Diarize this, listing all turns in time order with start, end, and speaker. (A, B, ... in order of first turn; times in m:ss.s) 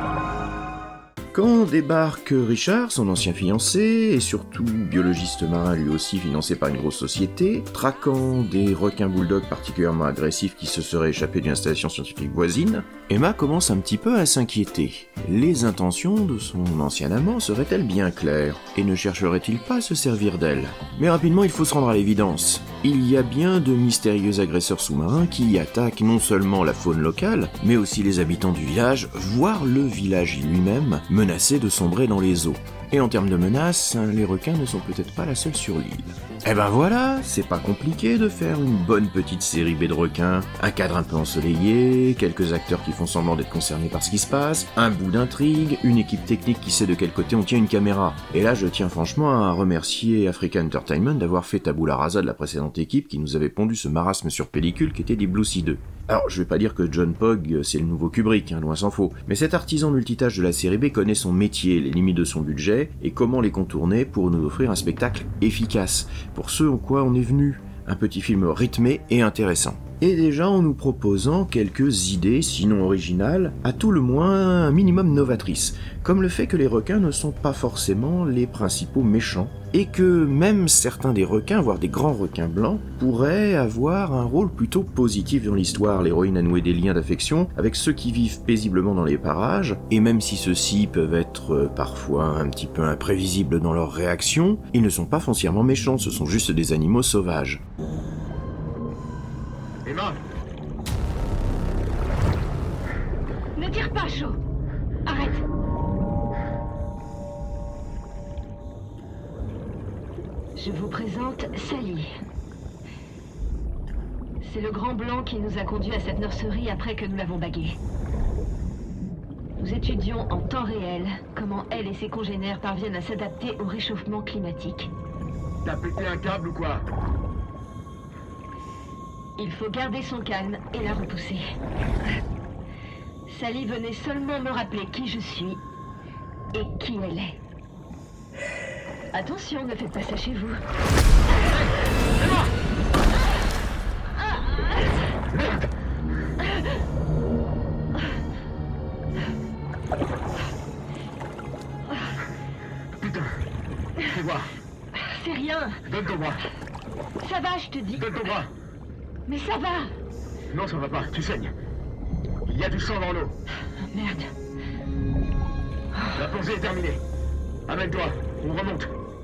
0:01.3-1:37.6 A
1:39.8-1:40.2 B
1:43.6-1:44.4 C
1:45.1-1:45.4 C
1:50.6-1:52.1 C
1:54.4-1:57.8 C
1:59.6-2:04.9 C
2:05.6-2:06.9 B
2:09.4-2:11.5 C
2:13.3-2:15.6 C
2:16.5-2:17.4 C
2:19.1-2:20.6 C
2:33.0-2:33.3 B
2:34.1-2:34.5 B
2:35.0-2:35.8 C
2:35.9-2:36.4 B
2:37.2-2:38.0 C
2:38.0-2:38.5 B
2:39.3-2:39.9 C
2:40.5-2:41.6 B
2:42.4-2:43.4 B
2:43.9-2:44.3 C
2:46.2-2:47.0 B
2:47.7-2:48.9 B